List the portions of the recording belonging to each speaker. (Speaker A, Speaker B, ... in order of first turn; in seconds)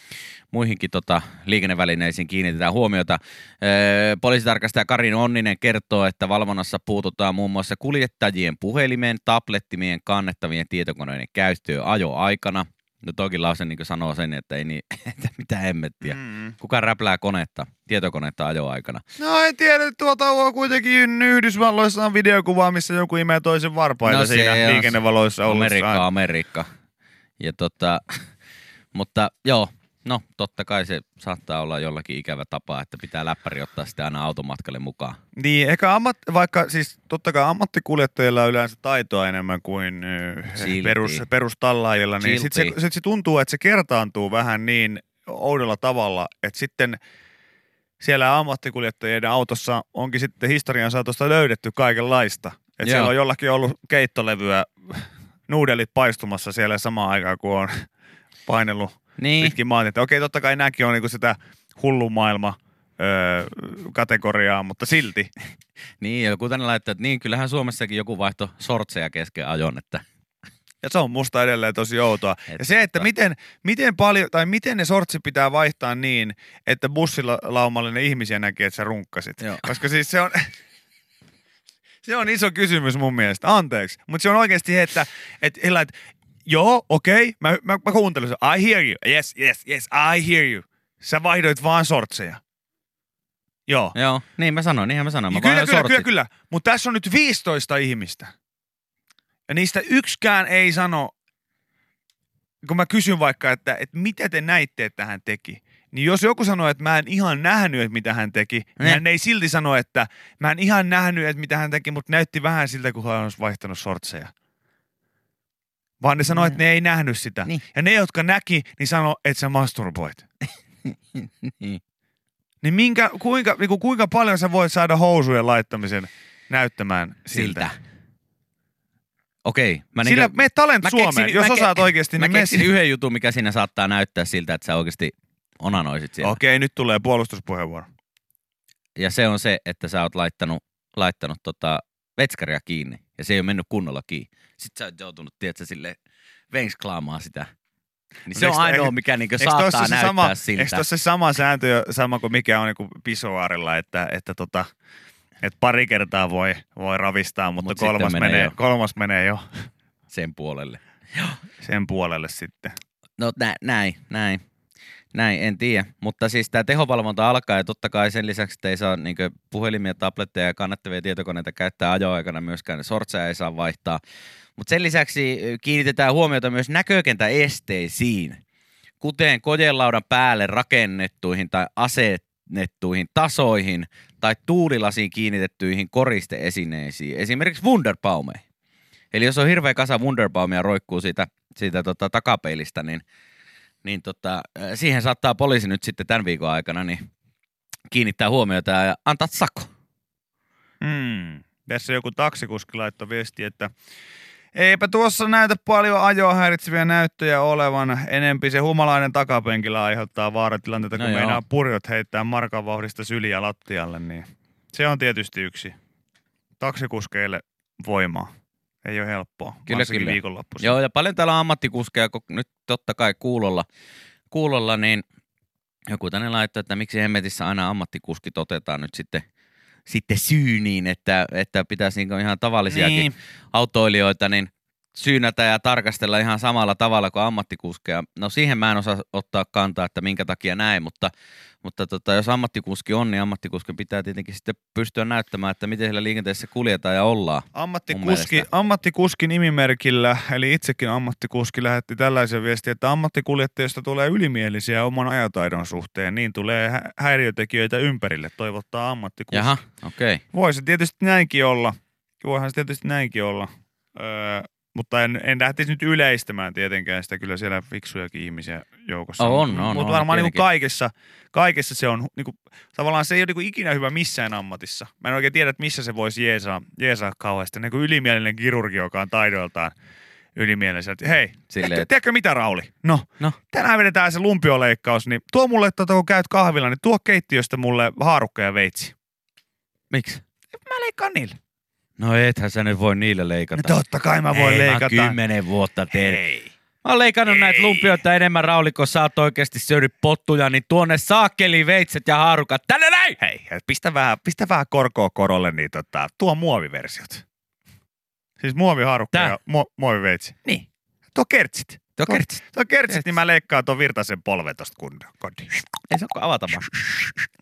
Speaker A: 0.5-19.0, 24.0-26.7, 27.4-28.2, 28.9-35.2, 40.5-41.2, 42.2-42.8, 52.8-53.1, 59.2-59.5, 66.0-70.0, 72.5-73.1, 79.4-79.7, 93.9-96.0, 120.9-121.8, 127.3-127.8, 129.4-136.4, 139.0-146.0, 146.5-147.5, 148.3-150.9, 157.6-158.5, 160.1-161.3, 163.2-164.4, 165.1-174.0, 174.6-178.4, 179.0-188.4, 189.1-193.0, 193.8-197.1, 197.9-199.7, 210.9-211.4, 219.7-223.7, 224.3-225.0, 225.9-229.2, 229.9-241.1, 241.6-248.5, 259.3-260.2, 269.2-270.4, 281.5-281.9, 289.9-290.2, 292.0-293.7, 294.3-296.2, 296.8-303.2, 312.0-313.1, 315.9-316.7
Speaker B: 16.0-16.5, 19.2-26.1, 35.4-47.0, 48.0-57.9, 58.5-65.3, 70.8-80.5, 82.0-85.9, 86.5-92.4, 93.7-94.0, 95.3-98.3, 99.5-101.1, 102.6-114.3, 116.0-120.2, 122.6-127.7, 130.0-132.7, 136.2-137.9, 148.3-154.7, 155.4-159.5, 161.6-162.8, 200.8-203.7, 204.5-215.8, 216.6-220.8, 232.7-233.1, 247.5-259.6, 260.3-279.7, 280.4-288.9, 290.5-291.4, 293.5-295.2, 295.9-296.5, 297.3-298.0, 303.2-307.2, 308.4-315.5